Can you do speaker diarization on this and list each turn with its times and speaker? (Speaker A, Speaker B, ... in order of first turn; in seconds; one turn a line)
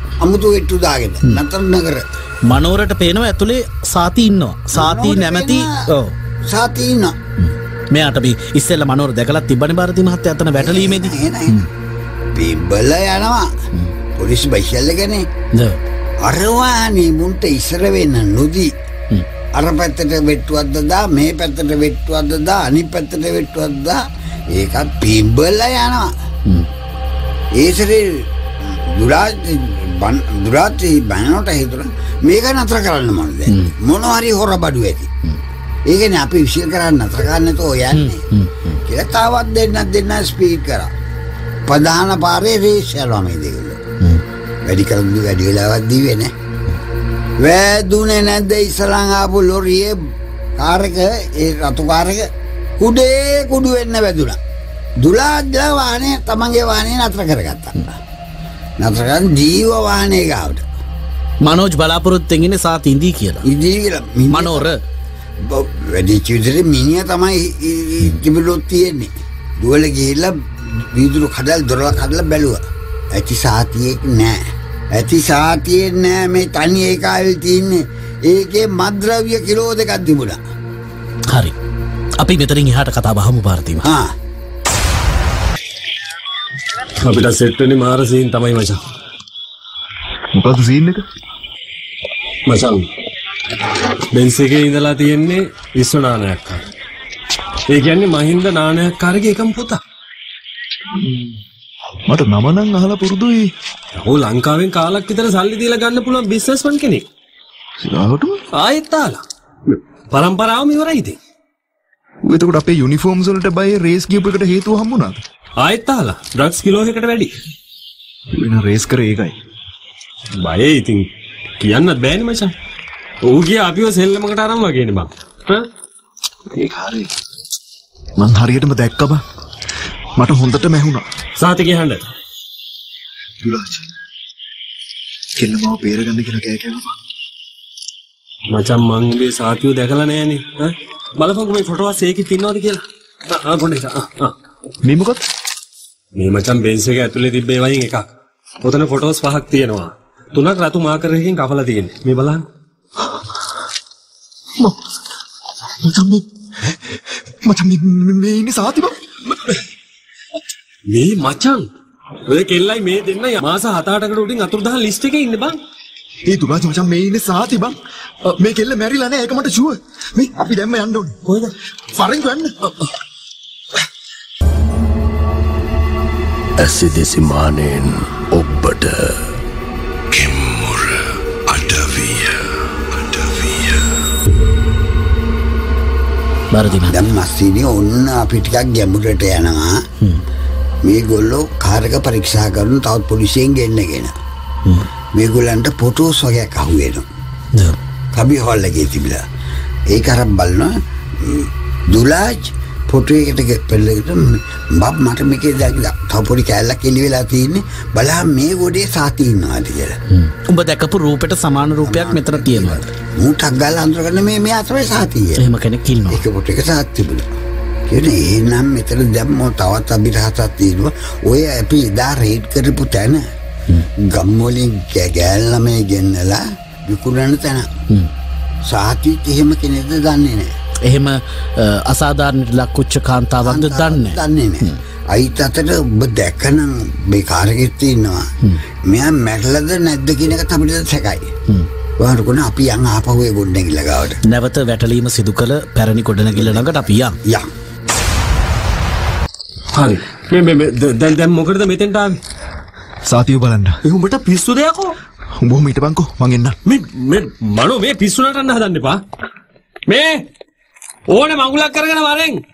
Speaker A: 0.2-2.0
Speaker B: 2.5-6.1
Speaker A: 4.7-5.8
Speaker A: 6.5-7.2
Speaker B: 7.4-11.7
Speaker A: 10.6-11.7
Speaker A: 12.3-13.5
Speaker A: 14.2-15.3
Speaker B: 15.5-15.8
Speaker A: 16.2-18.7
Speaker A: 19.5-26.1
Speaker A: 27.5-35.1
Speaker B: 33.5-33.7
Speaker A: 35.9-38.2
Speaker B: 37.9-38.8
Speaker A: 38.9-40.9
Speaker A: 41.7-43.8
Speaker A: 44.6-46.3
Speaker A: 47.4-50.0
Speaker A: 50.6-54.4
Speaker A: 55.0-58.0
Speaker A: 58.8-60.6
Speaker B: 61.4-63.5
Speaker A: 63.4-64.7
Speaker B: 64.3-64.8
Speaker A: 65.4-74.4
Speaker A: 74.9-80.4
Speaker B: 81.3-81.5
Speaker B: 82.2-83.9
Speaker A: 83.8-84.1
Speaker C: 87.0-88.8
Speaker D: 90.3-91.0
Speaker C: 92.5-92.9
Speaker C: 94.1-96.6
Speaker C: 97.7-99.8
Speaker D: 100.9-101.4
Speaker D: 102.1-103.5
Speaker C: 104.0-107.0
Speaker D: 107.8-108.4
Speaker C: 108.5-111.2
Speaker D: 112.2-115.2
Speaker C: 115.6-117.3
Speaker D: 118.3-119.3
Speaker C: 120.3-121.1
Speaker C: 121.6-122.5
Speaker C: 123.2-125.7
Speaker D: 126.5-127.1
Speaker D: 128.2-129.2
Speaker D: 130.2-131.1
Speaker C: 131.4-132.0
Speaker D: 133.4-133.9
Speaker D: 135.4-136.9
Speaker C: 138.5-144.3
Speaker D: 144.8-145.2
Speaker C: 146.1-148.1
Speaker C: 148.6-152.4
Speaker D: 155.8-159.0
Speaker C: 160.9-161.7
Speaker C: 162.3-165.6
Speaker D: 166.2-171.2
Speaker C: 171.2-171.5
Speaker D: 171.9-172.5
Speaker E: 176.6-179.2
Speaker E: 180.1-183.8
Speaker B: 186.5-187.0
Speaker A: 186.9-189.8
Speaker A: 190.8-194.1
Speaker A: 195.1-197.1
Speaker A: 198.1-199.2
Speaker A: 199.9-210.0
Speaker B: 210.1-212.9
Speaker A: 211.8-215.4
Speaker B: 215.4-216.2
Speaker A: 216.1-217.3
Speaker A: 217.9-223.2
Speaker A: 224.0-227.7
Speaker A: 228.7-230.5
Speaker B: 230.8-234.8
Speaker A: 233.4-238.3
Speaker A: 238.8-241.3
Speaker A: 242.0-244.2
Speaker B: 244.2-247.2
Speaker A: 246.4-246.7
Speaker C: 249.7-252.2
Speaker D: 253.1-253.8
Speaker C: 253.8-254.9
Speaker D: 255.4-256.5
Speaker C: 256.6-259.0
Speaker C: 259.9-260.2
Speaker C: 261.1-262.4